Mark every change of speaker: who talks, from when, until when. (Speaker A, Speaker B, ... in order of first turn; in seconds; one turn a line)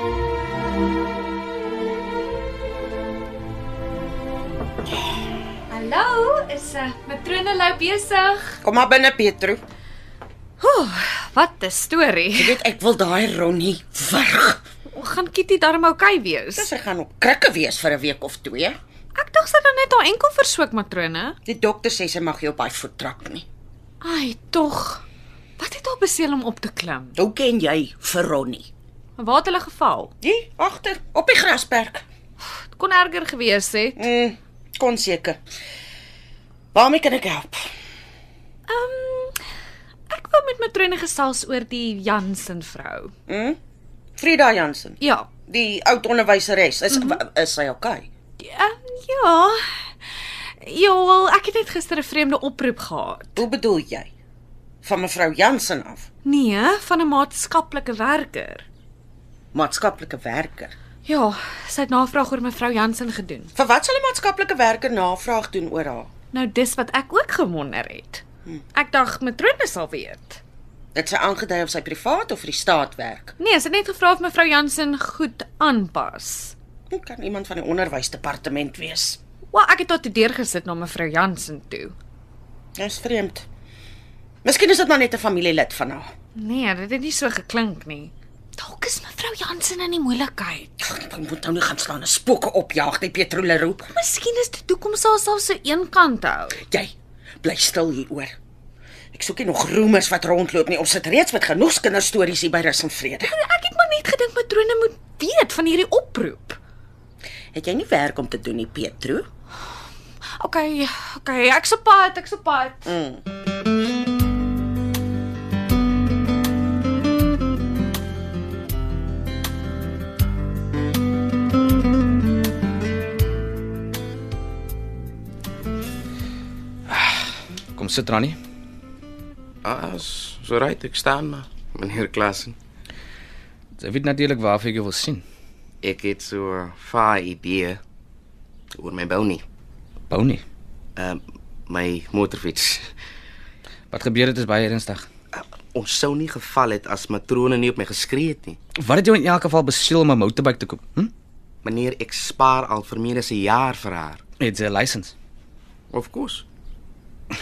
Speaker A: 5.7-8.6
Speaker B: 8.6-9.6
Speaker A: 10.6-12.6
Speaker B: 12.3-14.6
Speaker A: 14.9-16.7
Speaker B: 16.6-18.8
Speaker A: 19.1-21.4
Speaker B: 21.4-23.4
Speaker A: 24.0-25.0
Speaker A: 25.6-27.2
Speaker B: 27.1-28.7
Speaker A: 29.2-30.1
Speaker B: 30.2-32.0
Speaker A: 32.7-34.0
Speaker B: 34.0-35.4
Speaker B: 36.7-37.6
Speaker A: 38.7-39.4
Speaker A: 40.1-43.1
Speaker B: 43.3-43.6
Speaker B: 44.2-45.0
Speaker A: 45.0-45.3
Speaker B: 45.5-48.0
Speaker A: 46.9-47.2
Speaker A: 48.4-49.6
Speaker A: 50.6-53.4
Speaker B: 53.4-54.1
Speaker B: 54.8-56.0
Speaker A: 56.2-58.6
Speaker B: 59.5-60.7
Speaker A: 61.0-63.5
Speaker B: 63.5-66.1
Speaker A: 66.3-68.2
Speaker A: 68.7-70.4
Speaker B: 70.9-73.3
Speaker A: 73.4-76.5
Speaker B: 76.9-79.2
Speaker A: 79.5-81.9
Speaker B: 82.8-83.4
Speaker B: 84.4-86.1
Speaker A: 86.3-90.7
Speaker B: 90.8-93.9
Speaker A: 93.9-96.6
Speaker B: 96.6-98.3
Speaker B: 99.1-103.3
Speaker A: 103.2-106.6
Speaker B: 107.5-109.3
Speaker A: 110.4-112.9
Speaker B: 112.8-113.2
Speaker C: 127.7-128.4
Speaker D: 129.6-132.6
Speaker C: 133.8-135.2
Speaker D: 135.8-137.8
Speaker D: 138.8-139.4
Speaker C: 140.1-140.4
Speaker D: 141.0-142.9
Speaker C: 143.9-145.1
Speaker D: 145.3-148.6
Speaker C: 148.8-151.1
Speaker D: 151.6-154.2
Speaker C: 154.4-155.1
Speaker D: 155.9-156.4